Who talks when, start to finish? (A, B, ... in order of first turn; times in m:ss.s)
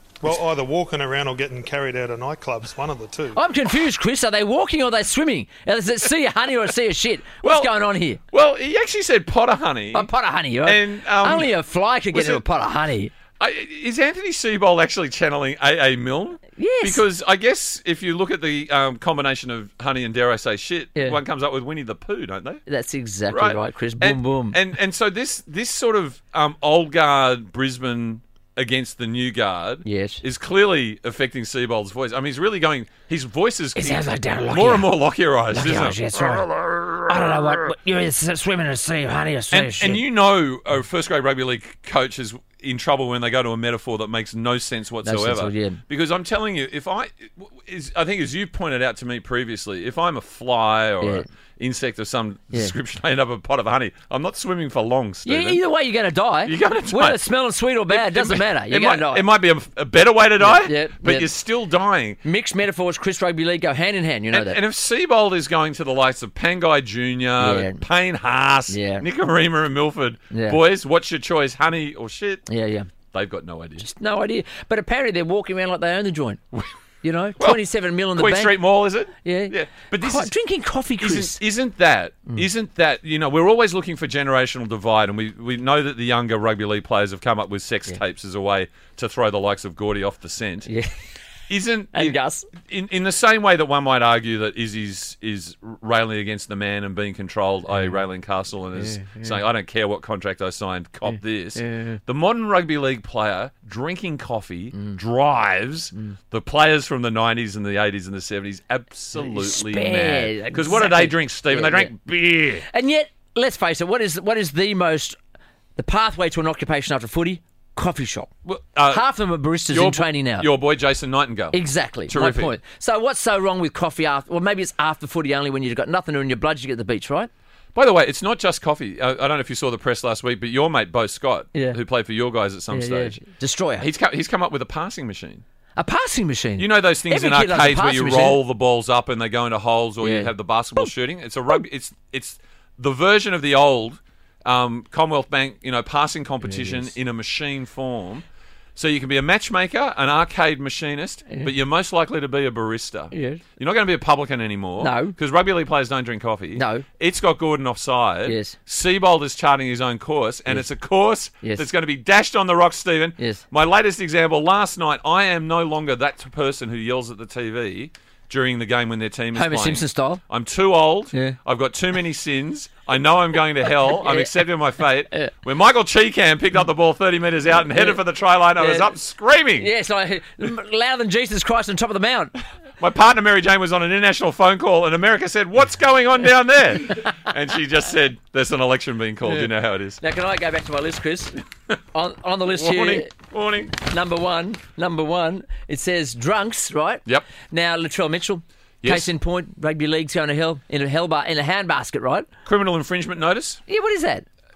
0:00.2-0:03.4 A
0:03.3-0:08.2 B
0:07.4-0:07.7 C
0:08.3-0:10.1 C
0:09.9-0:13.1 B
0:10.6-0:11.5 C
0:12.1-0:12.4 C
0:13.4-0:22.6 C
0:16.6-0:17.0 B
0:22.7-0:24.6 B
0:23.3-0:37.1 C
0:29.8-0:30.2 B
0:33.8-0:34.9 B
0:35.5-0:40.0 B
0:39.5-0:55.6 C
0:45.0-0:45.8 B
0:55.3-0:59.3 B
0:56.5-0:57.2 C
0:57.9-1:02.2 C
1:00.4-1:01.3 B
1:02.2-1:04.6 B
1:04.3-1:12.4 C
1:07.4-1:07.8 B
1:08.7-1:09.0 B
1:10.3-1:10.6 B
1:12.5-1:12.9 B
1:13.1-1:13.9 C
1:13.8-1:16.4 B
1:17.0-1:18.6 B
1:18.1-1:20.3 C
1:19.2-1:21.4 B
1:21.0-1:30.7 C
1:30.7-1:30.9 B
1:31.5-1:52.7 C
1:31.9-1:32.5 B
1:37.7-1:38.0 B
1:38.8-1:39.4 B
1:41.1-1:42.0 B
1:49.2-1:51.9 B
1:52.7-1:55.2 B
1:55.8-1:58.3 B
1:58.4-1:59.1 C
1:58.9-2:00.5 B
1:59.7-2:02.5 C
2:01.5-2:07.3 B
2:07.8-2:13.2 C
2:12.7-2:13.9 B
2:13.8-2:15.4 C
2:15.8-2:18.4 B
2:16.6-2:28.2 C
2:20.0-2:20.9 B
2:26.4-2:26.9 B
2:28.8-2:59.7 C
2:33.1-2:33.4 B
2:34.8-2:35.2 B
2:36.6-2:36.8 B
2:38.3-2:38.6 B
2:49.4-2:50.2 B
2:53.9-2:54.4 B
2:57.7-2:58.0 B
2:58.6-2:58.9 B
2:59.6-3:02.4 B
3:02.8-3:10.0 C
3:10.0-3:11.4 B
3:11.9-3:13.1 B
3:12.5-3:13.7 C
3:13.8-3:22.3 B
3:18.8-3:19.1 C
3:22.5-3:23.6 C
3:23.7-3:24.3 B